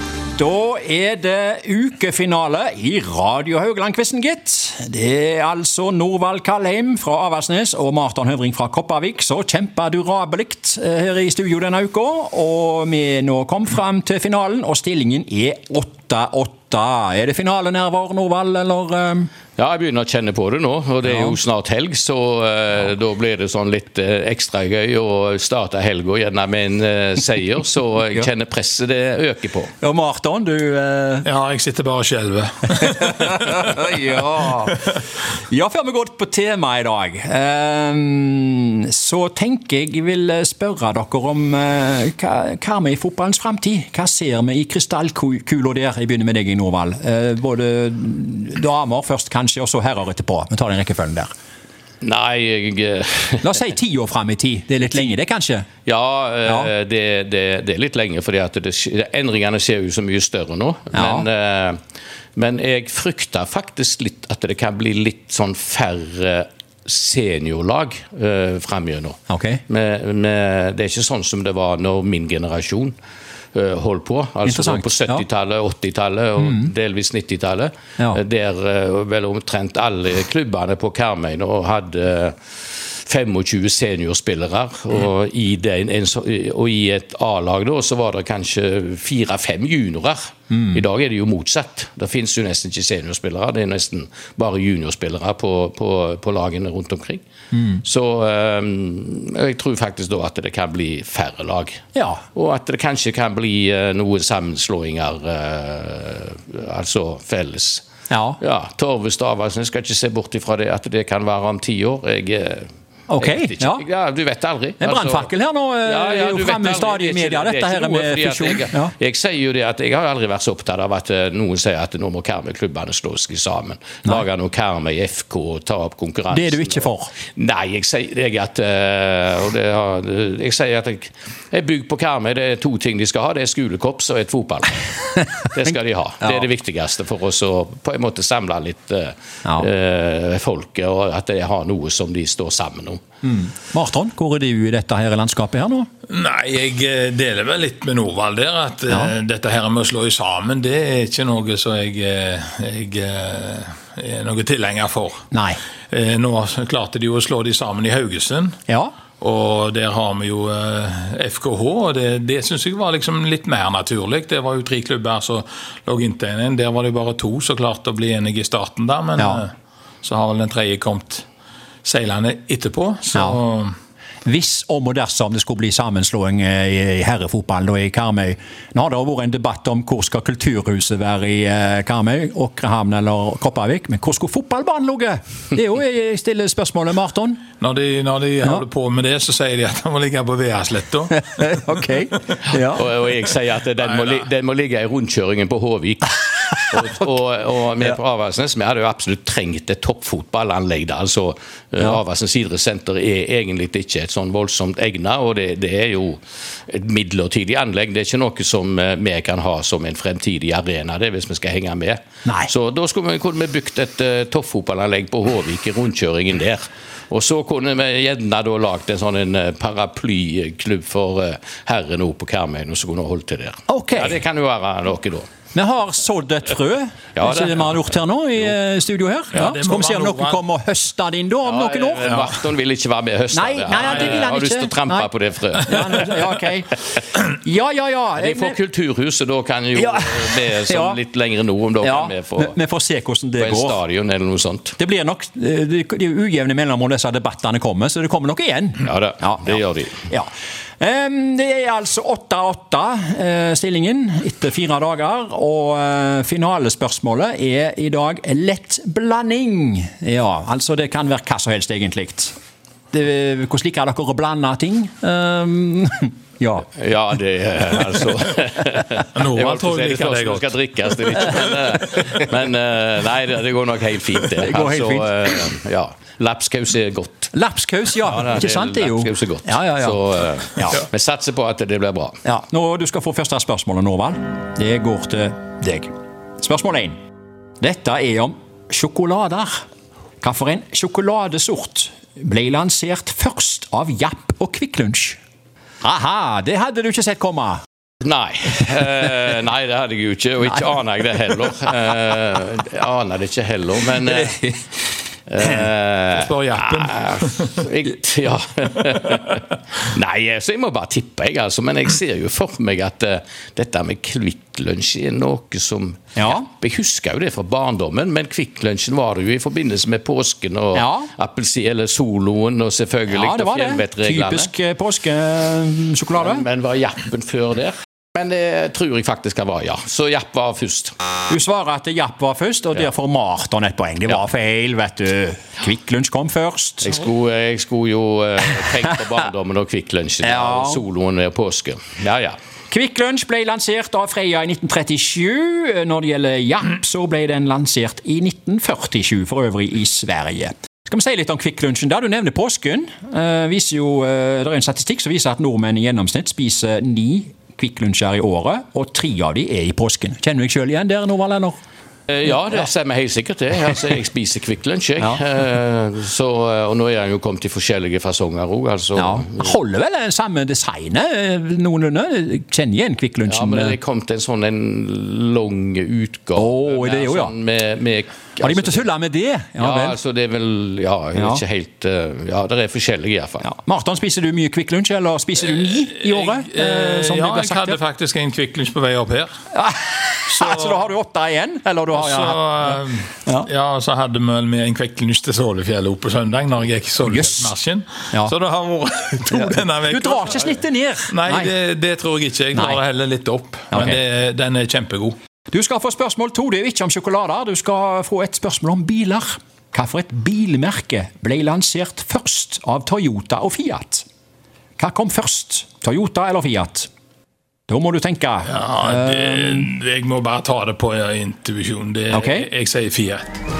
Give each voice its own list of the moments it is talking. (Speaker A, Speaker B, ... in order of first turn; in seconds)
Speaker A: 0.3-19.3, 21.0-21.4, 29.8-31.3, 32.8-51.3, 53.4-55.7, 56.5-56.7, 60.9-61.3, 69.3-69.6, 74.4-75.2, 76.4-76.7, 97.5-97.8, 101.9-102.2, 108.1-108.4, 113.1-113.8, 114.8-118.9, 126.3-127.1, 143.3-145.9, 155.3-155.6, 158.7-158.9, 169.2-169.4, 173.1-173.4, 174.2-187.4, 191.1-192.9, 212.2-212.5, 223.7-224.2, 225.5-232.3, 233.3-235.1, 235.6-238.6, 239.8-241.0, 241.8-243.8, 244.8-250.3, 250.8-262.3, 262.9-266.7, 274.4-275.1, 277.3-280.0, 282.2-286.9, 287.6-289.6, 290.2-295.2, 295.8-297.6, 316.1-316.4, 320.7-321.1, 323.1-326.4, 331.3-337.0, 340.2-340.8, 342.7-361.6, 368.9-373.8, 376.3-377.3, 378.4-380.0, 381.1-381.4, 383.4-387.8, 389.5-393.5, 397.1-397.5, 399.6-401.5, 402.5-402.8, 403.7-404.0, 405.5-414.1, 414.8-416.9, 417.7-419.7, 422.1-422.5
Speaker B: 19.6-29.7, 52.0-53.5, 55.9-61.8, 62.4-72.9, 73.5-97.2, 97.7-107.8, 108.4-112.7, 113.2-115.3, 115.8-134.8, 135.4-143.0, 192.5-225.2, 227.1-227.8, 231.4-236.1, 238.2-242.5, 243.4-244.8, 248.8-250.0, 266.8-277.3, 278.0-282.2, 298.0-304.6, 305.3-324.5, 326.1-330.9, 336.8-342.4, 362.1-369.6, 373.3-378.9, 379.6-383.5
Speaker C: 31.2-34.7, 146.1-155.2, 155.9-158.6, 159.2-169.5, 170.0-171.2, 171.8-173.7, 187.6-191.8, 193.9-194.3, 229.3-230.4, 233.7-234.3, 269.1-270.5, 306.1-307.6, 385.5-389.3, 390.3-390.8, 391.9-400.6, 401.1-405.1, 418.5-423.4